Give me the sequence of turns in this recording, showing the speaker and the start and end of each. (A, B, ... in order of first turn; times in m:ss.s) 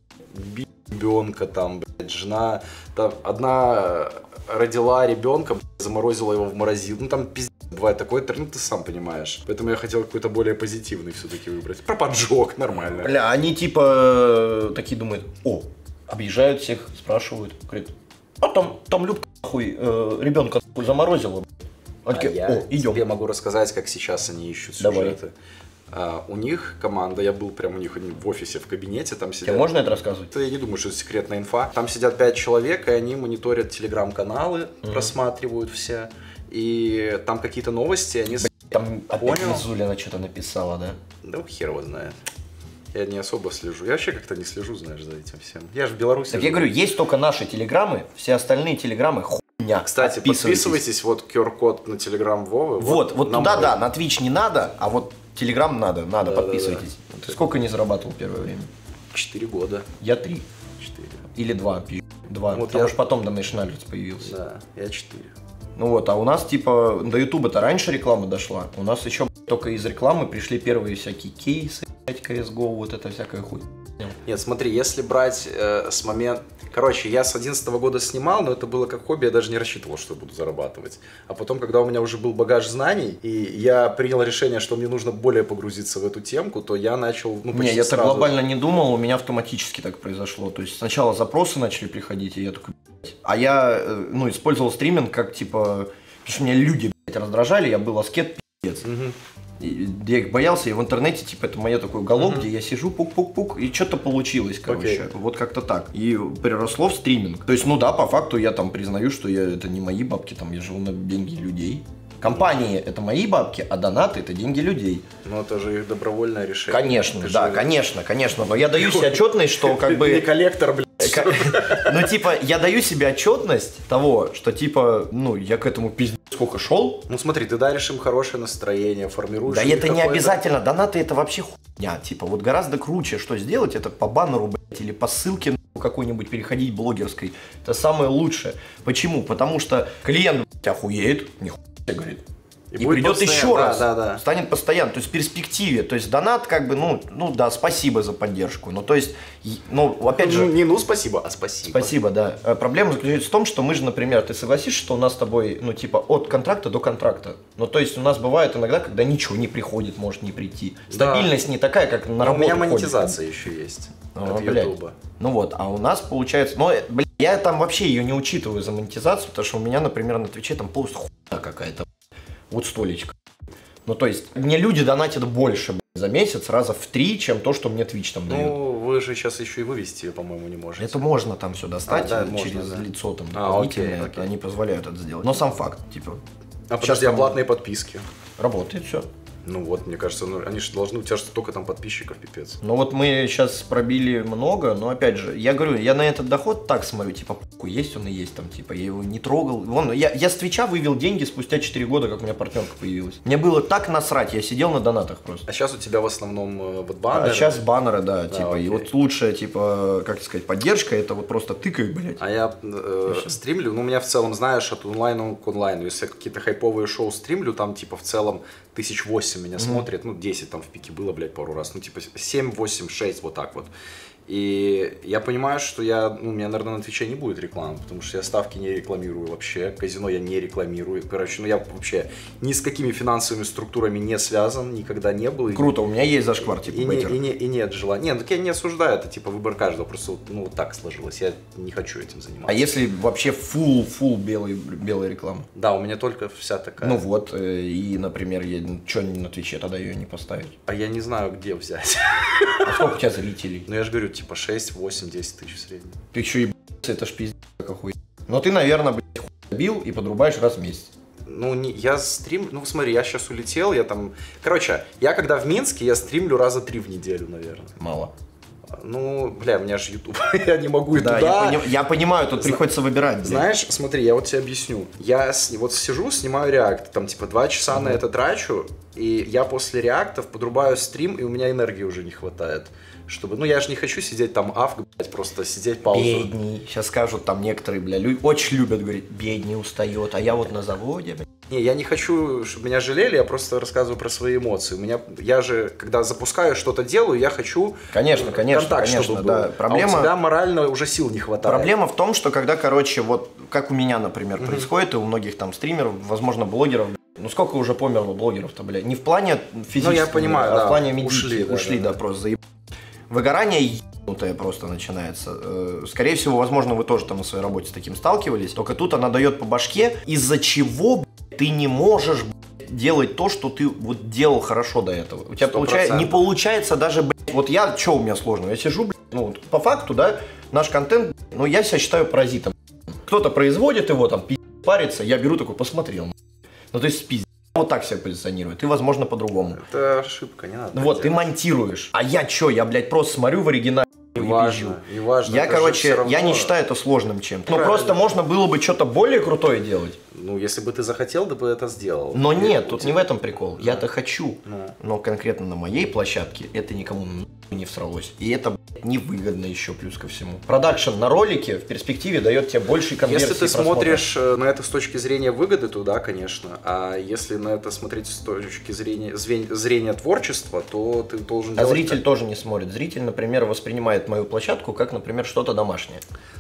0:00.3-0:13.2 A
0:12.9-0:21.5 B
0:22.0-0:23.0 B
0:22.1-0:25.3 A
0:24.8-0:25.2 B
0:25.9-0:29.7 A
0:29.4-0:30.3 B
0:30.3-0:39.6 A
0:34.8-0:35.1 B
0:38.4-0:41.0 B
0:41.2-0:42.2 A
0:42.9-0:46.7 A
0:46.3-0:50.8 B
0:49.9-0:53.8 A
0:52.8-0:58.7 B
0:56.2-0:57.4 A
0:59.1-0:59.9 A
1:00.0-1:00.5 B
1:00.8-1:01.2 A
1:01.3-1:04.4 B
1:02.5-1:03.2 A
1:04.2-1:05.3 A
1:05.8-1:14.2 B
1:14.2-1:28.4 A
1:27.5-1:38.8 B
1:38.8-1:39.2 A
1:39.6-1:55.0 B
1:42.2-1:42.5 A
1:44.7-1:45.1 A
1:52.2-1:52.6 A
1:55.2-1:57.7 A
1:56.7-2:00.3 B
1:58.7-2:02.0 A
2:01.0-2:07.0 B
2:07.1-2:10.4 A
2:09.4-2:22.2 B
2:22.7-2:24.2 A
2:22.8-2:30.5 B
2:30.2-2:32.0 A
2:31.7-2:43.2 B
2:40.9-2:41.4 A
2:42.2-2:45.0 A
2:44.2-2:51.9 B
2:52.5-2:53.2 B
2:53.8-2:58.6 B
2:58.3-3:01.1 A
3:00.8-3:06.2 B
3:01.9-3:04.3 A
3:06.7-3:08.0 A
3:06.8-3:07.4 B
3:08.4-3:09.1 B
3:09.4-3:12.6 A
3:12.6-3:25.4 B
3:25.5-3:27.6 A
3:27.1-3:32.2 B
3:28.3-3:28.9 A
3:32.2-3:43.7 A
3:39.6-3:39.9 B
3:44.3-3:55.8 A
3:55.5-3:57.2 B
3:56.6-4:02.6 A
4:02.5-4:05.5 B
4:05.6-4:07.0 A
4:06.8-4:10.6 B
4:10.7-4:12.7 A
4:12.6-4:13.7 B
4:13.7-4:16.0 A
4:16.1-4:20.9 B
4:21.3-4:27.7 A
4:27.8-4:28.1 B
4:28.7-4:31.7 A
4:30.9-4:33.5 B
4:32.4-4:32.6 A
4:33.2-4:46.3 A
4:37.7-4:38.0 B
4:45.9-4:51.3 B
4:51.5-5:01.7 A
4:57.9-5:00.1 B
5:01.4-5:12.4 B
5:04.4-5:04.7 A
5:09.8-5:12.0 A
5:13.1-5:36.2 B
5:25.4-5:26.3 A
5:36.7-5:39.6 B
5:39.4-5:41.3 A
5:40.7-5:50.0 B
5:44.1-5:46.5 A
5:47.5-5:48.0 A
5:50.1-5:53.0 A
5:52.1-6:04.1 B
5:53.6-5:53.9 A
5:54.5-5:54.8 A
6:03.0-6:12.0 A
6:11.6-6:16.0 B